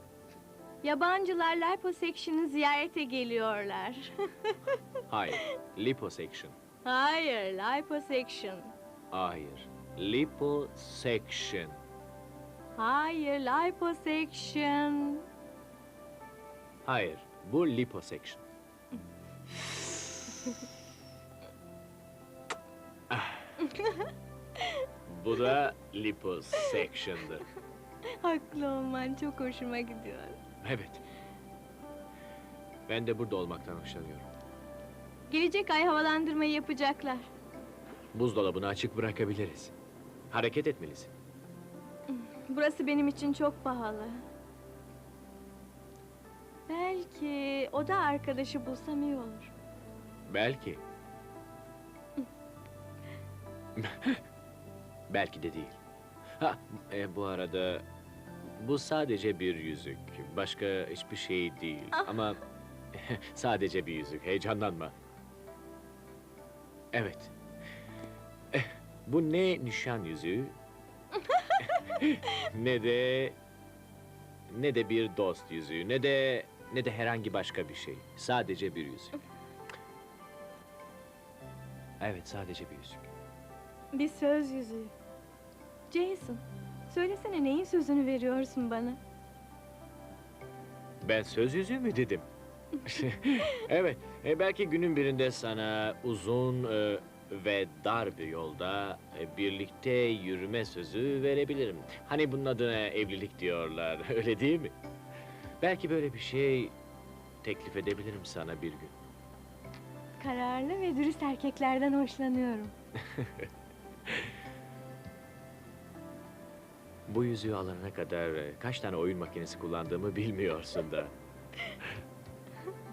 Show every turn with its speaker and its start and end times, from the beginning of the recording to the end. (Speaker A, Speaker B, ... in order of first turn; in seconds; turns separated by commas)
Speaker A: 0.8-4.7, Speaker B: 5.1-6.5, Speaker A: 6.8-8.7, Speaker B: 9.1-11.8, Speaker A: 12.8-15.2, Speaker B: 16.8-18.4, Speaker B: 23.1-23.5, Speaker A: 23.6-24.8, Speaker B: 25.1-27.4, Speaker A: 28.1-30.4, Speaker B: 30.6-31.0, Speaker B: 32.9-34.3, Speaker A: 35.3-37.3, Speaker B: 38.1-39.7, Speaker B: 40.3-41.1, Speaker A: 42.1-44.2, Speaker A: 46.7-49.5, Speaker B: 50.3-50.8, Speaker B: 53.8-54.2, Speaker B: 55.1-55.8, Speaker B: 56.4-57.8, Speaker B: 58.6-62.4, Speaker A: 61.9-62.2, Speaker B: 62.9-64.9, Speaker B: 66.9-67.3, Speaker B: 68.5-70.6, Speaker A: 71.3-71.6, Speaker B: 71.6-73.4, Speaker B: 74.5-79.2, Speaker B: 82.0-83.1, Speaker A: 83.9-84.9, Speaker A: 85.9-89.0, Speaker B: 91.0-92.3, Speaker B: 92.8-104.7, Speaker B: 105.6-106.7, Speaker B: 107.4-108.9, Speaker A: 110.2-112.7, Speaker B: 113.0-113.5, Speaker B: 117.1-121.1